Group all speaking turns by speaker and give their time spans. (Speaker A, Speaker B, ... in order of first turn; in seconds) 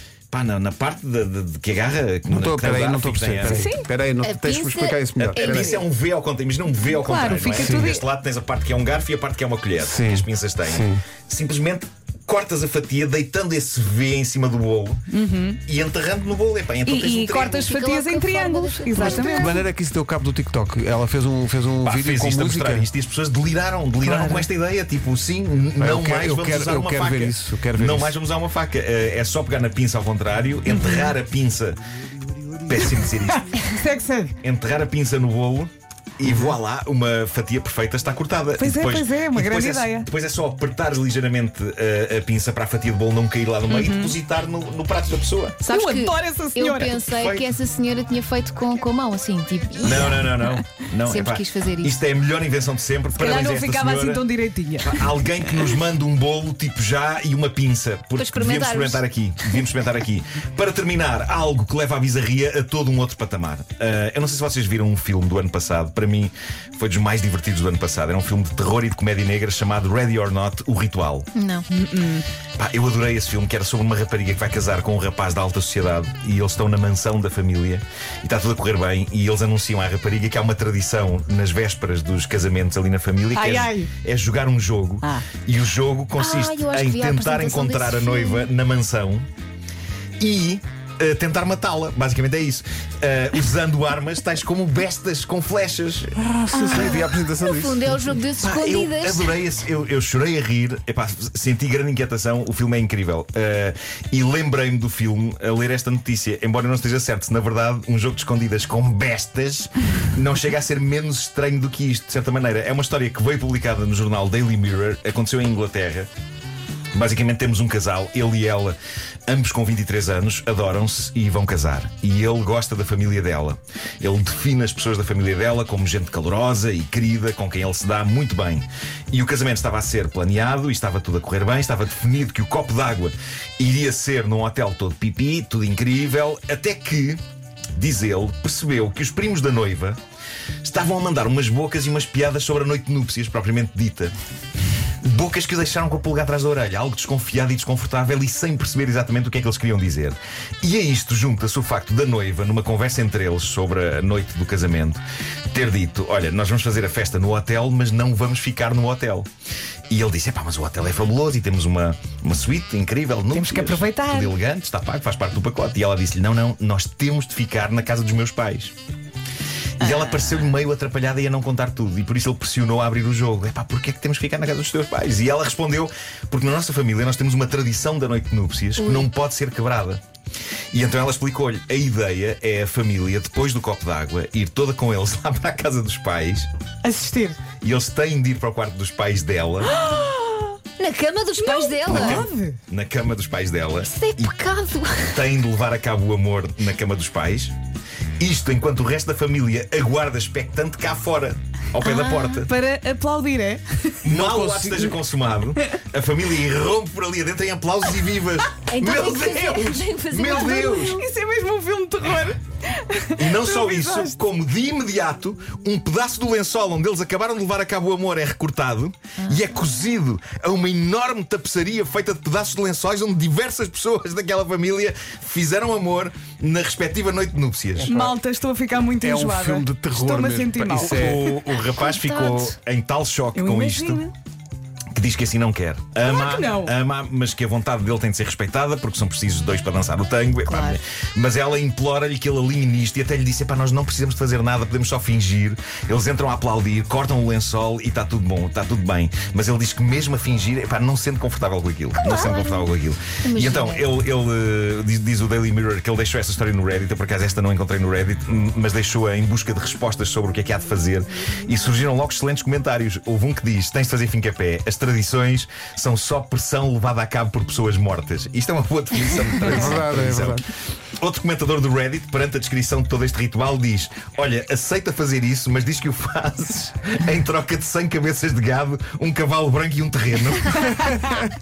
Speaker A: 0.3-3.7, 5.2-15.0, 15.7-17.6, 21.8-31.8, 32.6-33.7, 34.4-45.6, 46.8-47.5, 49.8-54.3, 54.8-71.3, 72.6-89.3, 90.2-96.1, 98.4-116.1, 116.9-118.8, 119.3-137.2, 137.8-140.0, 140.6-144.1, 145.0-159.3, 159.9-168.7, 169.8-180.0, 180.7-186.5, 187.6-189.7, 191.9-194.4, 195.0-197.6, 198.2-202.5, 204.0-211.0, 213.2-227.9, 230.8-234.1, 234.9-270.5, 271.0-281.0
Speaker B: 2.3-5.8, 7.5-7.9, 9.8-11.0, 19.0-22.9, 25.8-28.1, 36.2-36.5, 96.2-98.0, 204.1-204.9, 227.8-228.1, 229.0-231.3, 269.5-270.4
Speaker C: 3.5-3.9, 6.9-8.1, 15.1-15.6, 16.9-19.6, 24.0-24.5, 30.7-31.1, 33.3-34.4, 38.6-40.1, 43.7-44.1, 45.7-47.0, 49.8-50.6, 53.1-55.0, 71.7-72.3, 83.3-83.9, 85.0-85.3, 163.3-164.4, 169.9-170.4, 186.8-187.4, 189.7-190.6, 191.4-192.6, 201.8-203.9, 210.9-214.2, 227.9-231.2, 233.3-234.1, 236.0-236.7
Speaker D: 4.2-5.8, 17.4-19.6, 45.6-50.3, 51.1-52.0, 58.2-59.0, 71.3-71.7, 86.2-88.5, 96.5-99.3, 190.8-192.3, 193.8-195.2, 208.7-211.0, 219.2-219.5, 231.6-232.5, 240.5-240.8, 252.0-252.7, 253.2-253.9